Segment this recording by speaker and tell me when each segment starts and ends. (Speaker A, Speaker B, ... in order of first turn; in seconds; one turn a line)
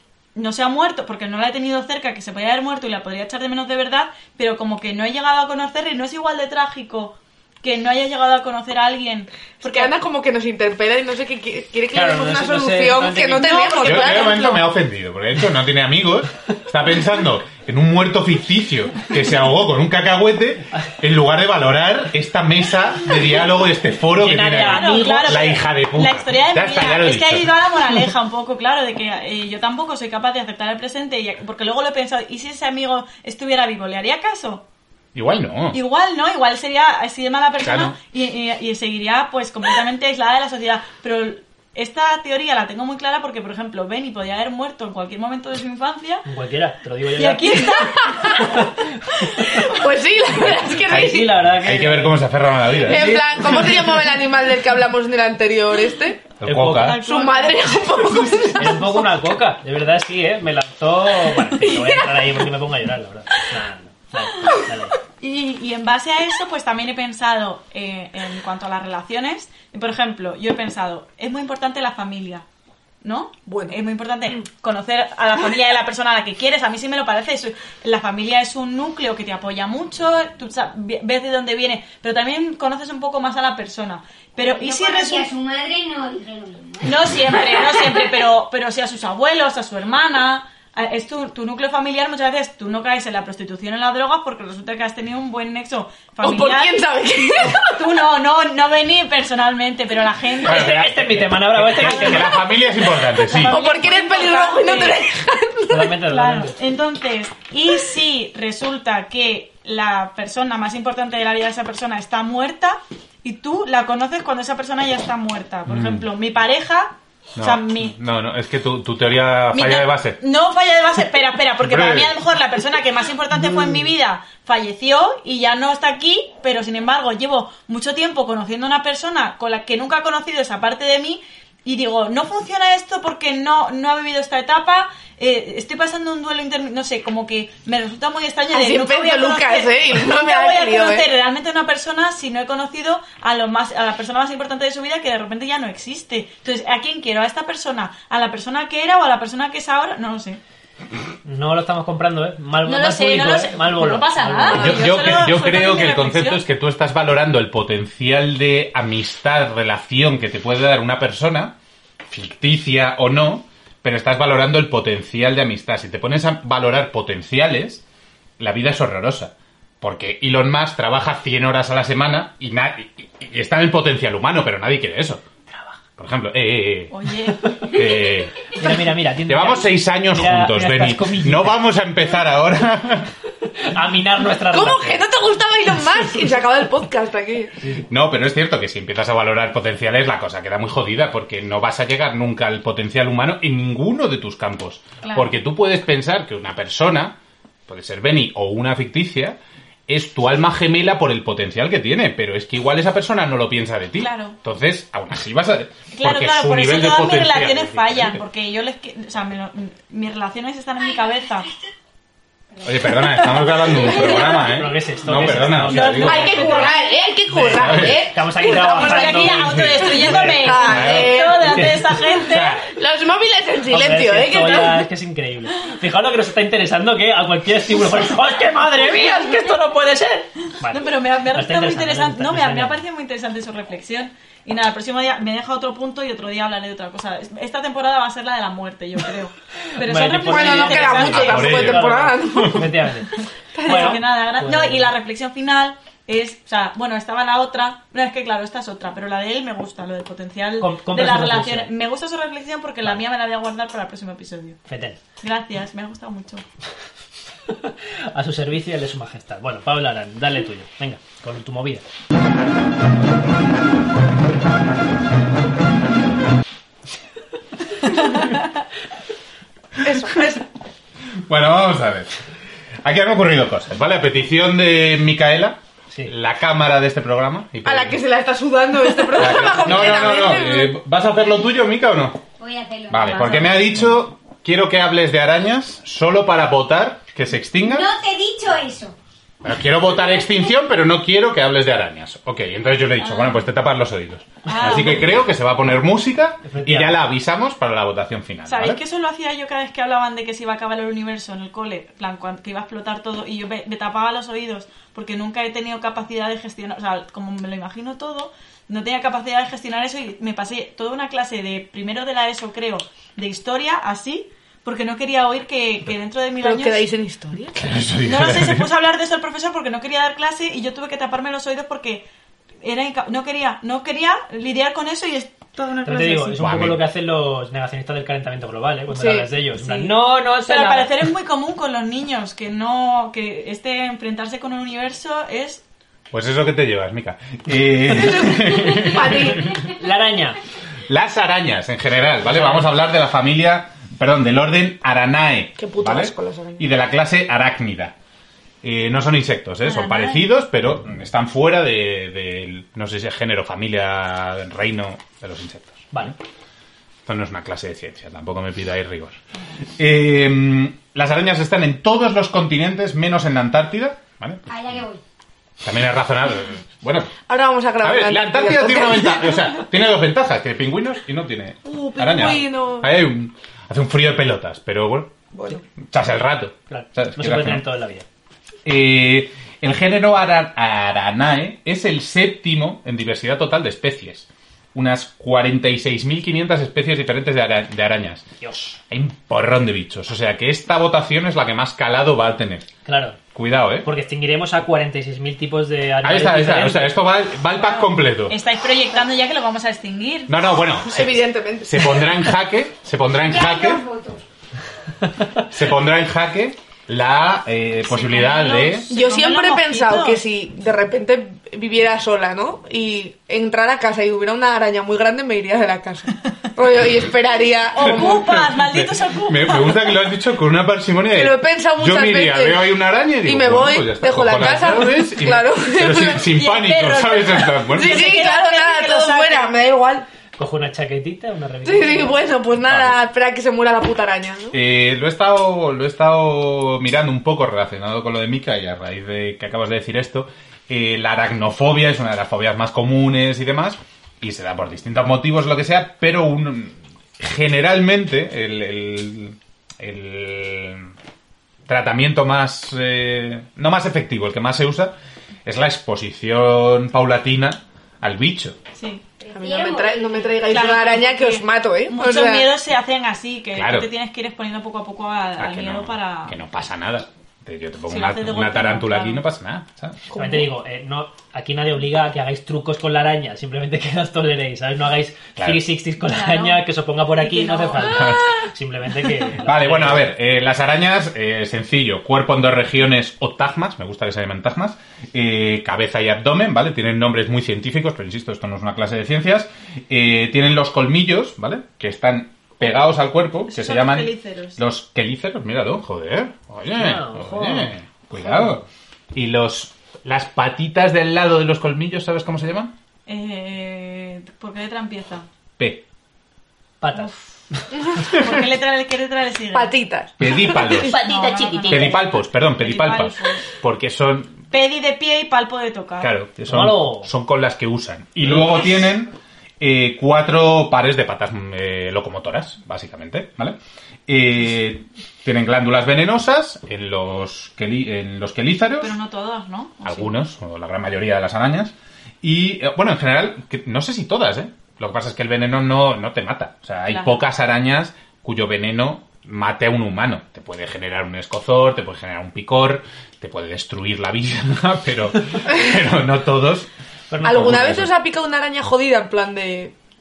Speaker A: 0.3-9.9
Speaker B: 9.6-14.6
Speaker C: 11.9-13.9
Speaker A: 13.4-14.7
Speaker D: 13.8-27.5
Speaker C: 24.1-25.6
Speaker A: 24.6-34.6
Speaker D: 35.1-35.8
Speaker A: 35.7-46.3
Speaker D: 37.6-38.0
Speaker C: 46.3-47.7
Speaker A: 47.2-48.4
Speaker B: 47.5-48.6
Speaker C: 48.4-49.3
Speaker B: 49.4-51.3
Speaker C: 50.9-53.9
Speaker D: 51.5-53.2
Speaker B: 52.9-56.3
Speaker D: 56.4-57.0
Speaker C: 56.4-57.0
Speaker A: 56.8-58.6
Speaker B: 57.0-59.0
Speaker C: 58.6-65.0
Speaker A: 65.2-72.5
Speaker A: 73.0-85.3
Speaker B: 73.5-73.8
Speaker E: 84.5-87.8
Speaker A: 86.8-96.8
Speaker B: 96.2-97.8
Speaker A: 97.4-100.8
Speaker D: 100.4-103.6
Speaker C: 100.5-102.4
Speaker A: 101.8-105.0
Speaker B: 103.5-105.9
Speaker C: 105.7-106.6
Speaker A: 106.1-118.0
Speaker D: 115.7-116.1
Speaker D: 117.4-120.2
Speaker A: 119.5-150.4
Speaker D: 121.6-122.2
Speaker B: 138.5-141.1
Speaker C: 151.2-154.9
Speaker A: 152.7-156.4
Speaker D: 154.6-161.6
Speaker D: 162.1-167.8
Speaker D: 168.4-175.2
Speaker D: 176.0-176.9
Speaker A: 176.9-177.7
Speaker D: 177.6-178.7
Speaker C: 178.5-181.6
Speaker D: 179.3-183.1
Speaker C: 183.7-185.1
Speaker B: 184.5-187.5
Speaker D: 187.9-197.2
Speaker A: 195.0-195.3
Speaker D: 197.7-208.2
Speaker A: 204.0-204.4
Speaker A: 205.9-211.5
Speaker E: 212.6-212.8
Speaker D: 212.6-216.4
Speaker A: 213.7-214.2
Speaker E: 213.7-214.3
Speaker C: 214.3-216.7
Speaker A: 215.4-216.8
Speaker B: 216.0-221.7
Speaker C: 217.3-220.7
Speaker D: 217.5-218.1
Speaker A: 218.6-222.6
Speaker D: 219.5-219.9
Speaker D: 220.7-221.2
Speaker C: 221.4-221.9
Speaker D: 222.2-222.7
Speaker B: 222.7-224.9
Speaker C: 223.7-232.8
Speaker A: 230.7-241.6
Speaker C: 239.8-244.9
Speaker B: 240.2-242.7
Speaker D: 241.1-242.6
Speaker B: 243.6-244.0
Speaker A: 243.6-254.6
Speaker C: 250.6-251.7
Speaker C: 254.7-255.0
Speaker A: 255.2-256.4
Speaker C: 257.5-261.8
Speaker B: 269.8-270.4
Speaker D: 271.3-272.1
Speaker D: 272.8-278.0
Speaker B: 277.6-280.8
Speaker D: 279.1-282.2
Speaker E: 282.4-283.6
Speaker D: 282.9-287.9
Speaker E: 287.6-289.0
Speaker D: 289.4-298.8
Speaker A: 293.0-293.5
Speaker A: 294.5-295.1
Speaker C: 296.4-297.0
Speaker A: 298.5-316.9
Speaker B: 316.4-317.8
Speaker D: 317.6-318.7
Speaker A: 318.0-322.1
Speaker A: 322.6-326.4
Speaker C: 325.8-330.9
Speaker D: 326.4-326.8
Speaker B: 328.9-329.9
Speaker A: 330.5-335.6
Speaker D: 336.1-339.7
Speaker B: 337.9-339.6
Speaker C: 339.6-340.4
Speaker D: 340.9-347.9
Speaker C: 342.2-342.7
Speaker B: 345.6-346.7
Speaker D: 348.6-356.1
Speaker A: 349.6-350.2
Speaker D: 357.1-359.2
Speaker D: 359.8-364.8
Speaker E: 364.5-365.0
Speaker D: 365.6-367.1
Speaker B: 367.3-369.6
Speaker D: 367.8-375.1
Speaker B: 371.6-372.9
Speaker B: 375.3-375.6
Speaker D: 375.8-377.7
Speaker C: 376.7-378.1
Speaker D: 378.6-388.3
Speaker C: 388.4-388.8
Speaker D: 388.9-392.7
Speaker C: 392.9-393.2
Speaker D: 393.3-393.9
Speaker C: 393.8-397.0
Speaker D: 396.0-398.4
Speaker A: 397.6-400.3
Speaker D: 400.3-403.9
Speaker B: 400.9-402.2
Speaker E: 403.2-404.2
Speaker D: 405.5-408.9
Speaker A: 407.9-410.2
Speaker B: 408.9-418.3
Speaker A: 417.8-420.0
Speaker D: 417.9-428.2
Speaker B: 421.1-426.4
Speaker A: 426.4-429.6
Speaker B: 427.7-430.1
Speaker C: 430.4-432.2
Speaker B: 431.6-434.6
Speaker D: 432.7-432.9
Speaker D: 434.5-450.9
Speaker D: 451.7-458.6
Speaker A: 458.8-459.0
Speaker E: 459.2-460.5
Speaker B: 459.3-462.5
Speaker A: 460.5-466.4
Speaker D: 463.5-463.9
Speaker D: 465.4-470.0
Speaker A: 467.9-469.2
Speaker B: 470.1-470.5
Speaker C: 470.1-480.1
Speaker D: 475.4-475.6
Speaker A: 476.0-476.6
Speaker A: 477.2-478.1
Speaker D: 477.9-478.4
Speaker D: 479.4-502.7
Speaker A: 493.5-494.6
Speaker C: 496.7-498.5
Speaker A: 503.1-505.3
Speaker D: 505.6-505.8
Speaker C: 506.8-507.8
Speaker A: 508.1-509.7
Speaker B: 509.5-511.0
Speaker D: 510.2-511.0
Speaker A: 510.8-513.5
Speaker C: 510.9-511.9
Speaker E: 511.6-512.0
Speaker D: 511.7-514.4
Speaker A: 514.5-516.1
Speaker D: 516.0-529.0
Speaker C: 516.5-517.1
Speaker C: 518.2-518.6
Speaker A: 528.8-530.1
Speaker D: 529.8-546.7
Speaker A: 536.9-537.2
Speaker C: 547.1-547.6
Speaker D: 547.2-547.9
Speaker B: 547.2-549.7